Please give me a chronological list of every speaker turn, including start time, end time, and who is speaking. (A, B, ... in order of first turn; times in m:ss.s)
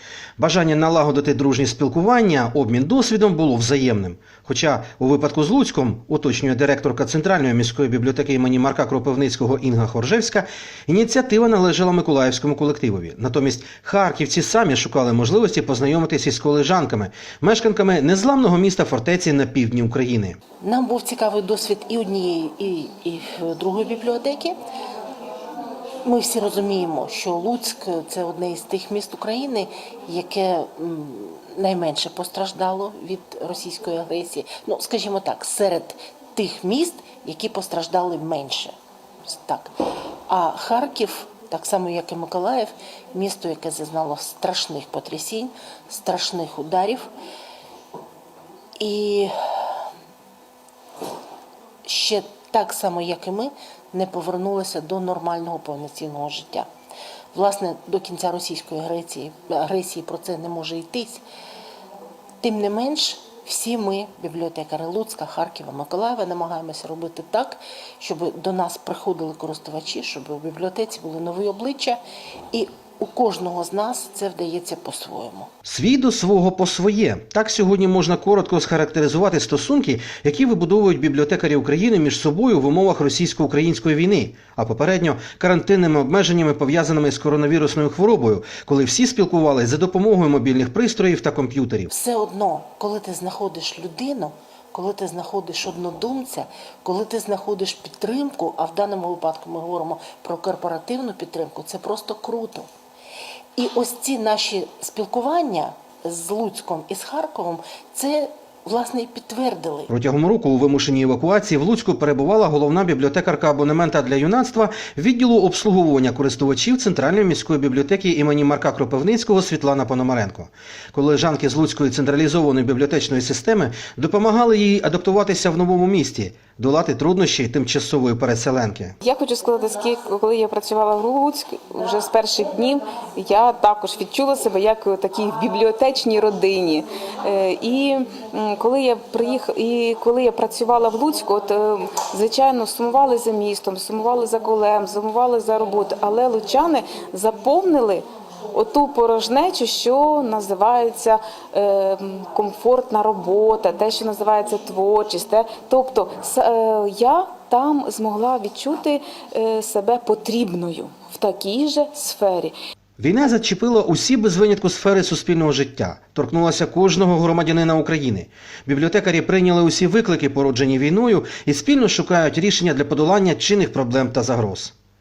0:00.4-0:20.4 A
0:20.6-0:24.6 B
0:26.0-0:38.7 B
0:39.2-0:39.7 B
0:40.3-0:47.1 B
0:48.8-0:49.8 B
0:51.8-0:56.7 B
0:57.3-1:01.2 B
1:02.4-1:12.0 B
1:12.5-1:15.5 B
1:15.6-1:31.9 A
1:31.9-1:42.7 B
1:43.6-1:49.9 B
1:49.9-2:09.0 A
2:09.0-2:42.5 C
2:43.0-2:54.7 A